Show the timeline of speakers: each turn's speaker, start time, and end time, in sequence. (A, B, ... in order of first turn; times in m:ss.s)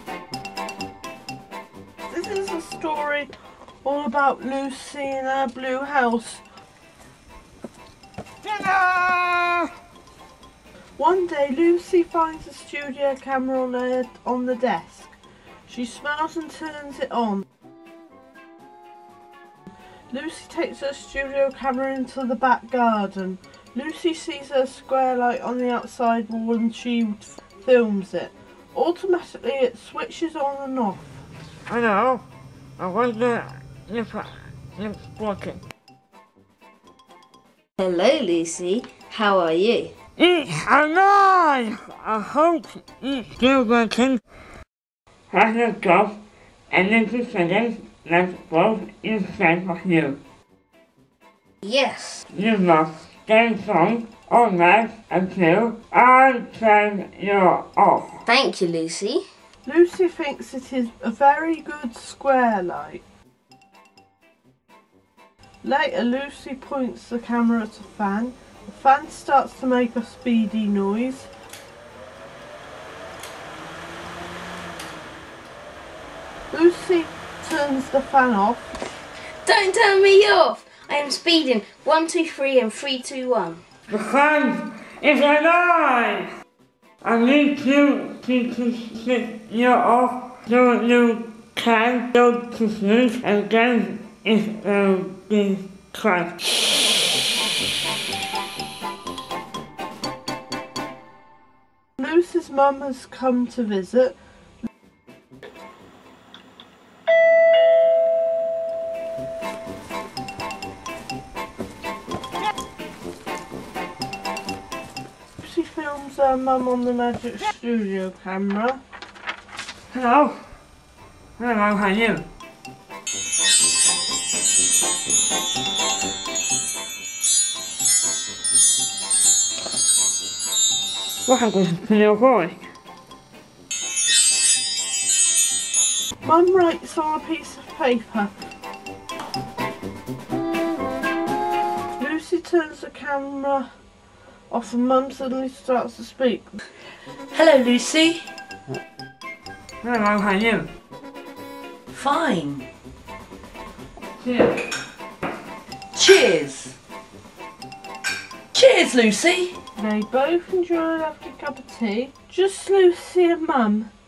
0:02.1-0:03.3 A
0:03.8-0:06.4 A
0:08.4-0:09.7 B
0:11.0-0:15.1 A
0:15.7-0:17.4 A
0:20.1-0:31.1 A
0:31.7-0:32.3 B
0:32.8-0:35.6 B
0:37.8-0:39.9 C
0:40.2-0:44.2 B
0:45.3-0:46.2 B
0:46.7-0:50.2 B
0:51.6-0:52.2 C
0:52.3-0:58.2 B
0:58.3-0:59.2 C
0:59.6-1:03.0 A
1:05.6-1:11.3 A
1:16.5-1:18.7 A
1:19.4-1:23.6 C
1:23.9-1:26.3 B
1:27.0-1:36.3 B
1:42.0-1:44.2 A
1:55.4-1:58.8 A
1:59.9-2:00.4 B
2:01.4-2:02.3 B
2:11.3-2:12.6 B
2:16.2-2:18.4 A
2:22.0-2:23.7 A
2:24.5-2:26.6 A
2:27.3-2:28.3 D
2:29.8-2:30.7 B
2:31.9-2:32.7 D
2:34.2-2:34.5 B
2:36.0-2:36.8 D
2:38.5-2:39.6 D
2:39.8-2:43.9 A